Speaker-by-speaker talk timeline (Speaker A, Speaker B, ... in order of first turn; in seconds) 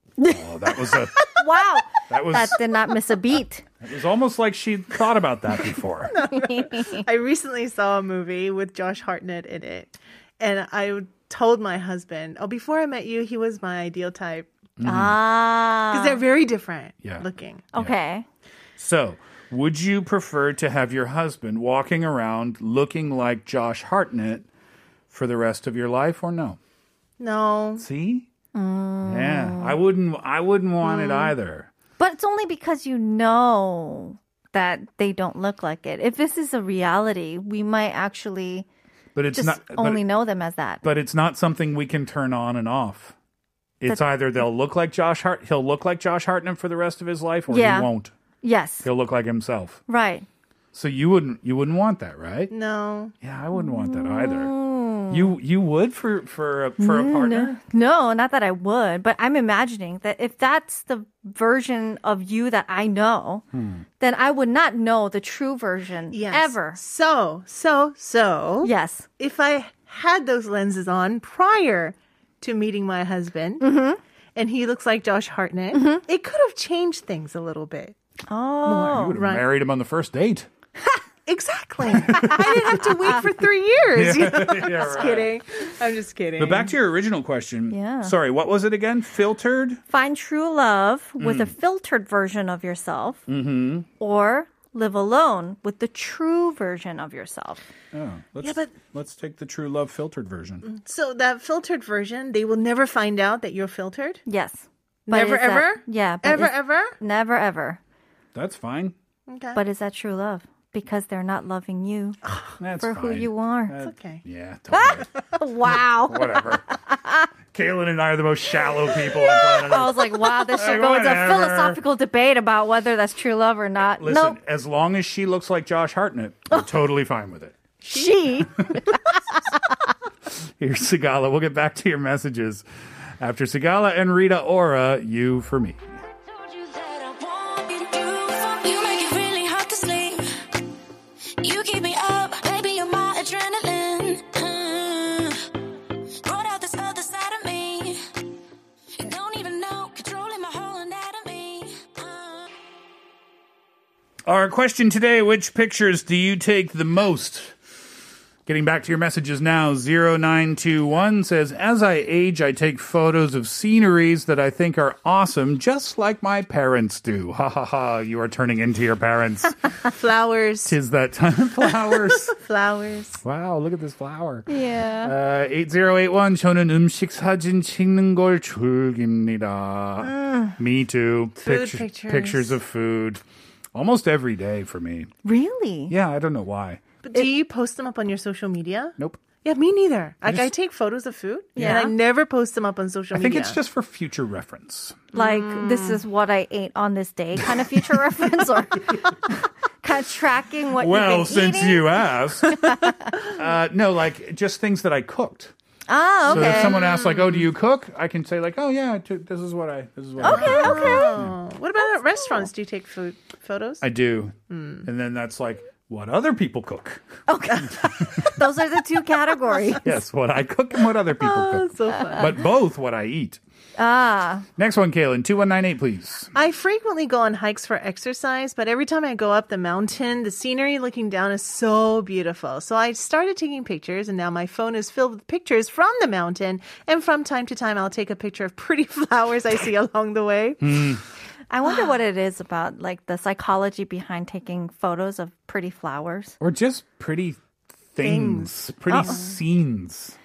Speaker A: 0.2-0.4, 1.2-3.6, 6.2-7.0, 14.8-16.2, 17.7-18.2, 28.5-29.8, 32.0-38.7, 39.3-40.8, 47.5-47.9, 48.4-48.9, 49.9-50.2, 53.5-55.3, 56.8-63.4, 64.0-66.8, 68.6-69.0, 73.6-74.0, 75.7-76.0, 78.3-79.2, 87.7-88.1, 89.9-93.2, 94.0-97.6, 104.2-107.8, 109.5-112.2, 112.8-113.7, 114.7-117.3, 119.2-124.4, 127.8-129.6, 174.5-175.1, 185.2-185.9, 191.6-191.9, 195.1-203.1, 205.9-206.8, 210.2-211.2, 217.3-219.9, 223.8-224.5, 241.5-246.4, 248.9-249.2
Speaker B: 0.2-1.4, 2.1-2.6, 3.8-6.1, 14.8-15.2, 17.0-17.9, 18.8-24.5, 25.1-26.6, 27.8-28.3, 29.0-31.7, 39.1-40.0, 40.8-43.1, 43.8-48.1, 48.8-49.8, 50.7-52.5, 53.2-54.5, 55.1-57.6, 63.5-63.8, 78.9-80.5, 81.9-82.8, 83.9-85.3, 86.4-89.8, 91.2-91.5, 93.3-93.9, 97.9-100.6, 108.3-108.9, 112.6-115.1, 115.6-116.7, 117.5-121.8, 124.0-127.6, 128.6-128.8, 130.6-132.6, 133.2-136.0, 154.2-157.6, 158.4-169.7, 170.6-172.3, 173.2-183.2, 183.7-185.1, 185.9-186.8, 190.2-190.5, 193.1-195.0, 200.8-202.6, 203.3-205.5, 206.3-211.3, 213.8-217.0, 217.6-218.3, 219.8-223.4, 224.6-226.3, 240.6-241.0, 246.4-247.4, 247.9-250.2
Speaker C: 6.1-14.5, 15.9-17.6, 27.2-27.8, 52.5-53.1, 66.1-73.7, 74.3-77.9, 78.6-79.4, 81.2-86.7, 98.4-98.7, 100.6-104.2, 105.1-107.0, 109.3-109.6, 113.8-114.2, 169.9-170.7, 171.7-173.2, 181.4-182.5, 187.0-193.6, 195.2-196.0, 206.3-207.4, 210.2-213.8, 214.5-214.8, 221.2-222.4, 226.3-240.8, 248.0-249.3
Speaker D: 136.3-140.2, 141.4-145.4, 146.2-148.0, 149.0-152.5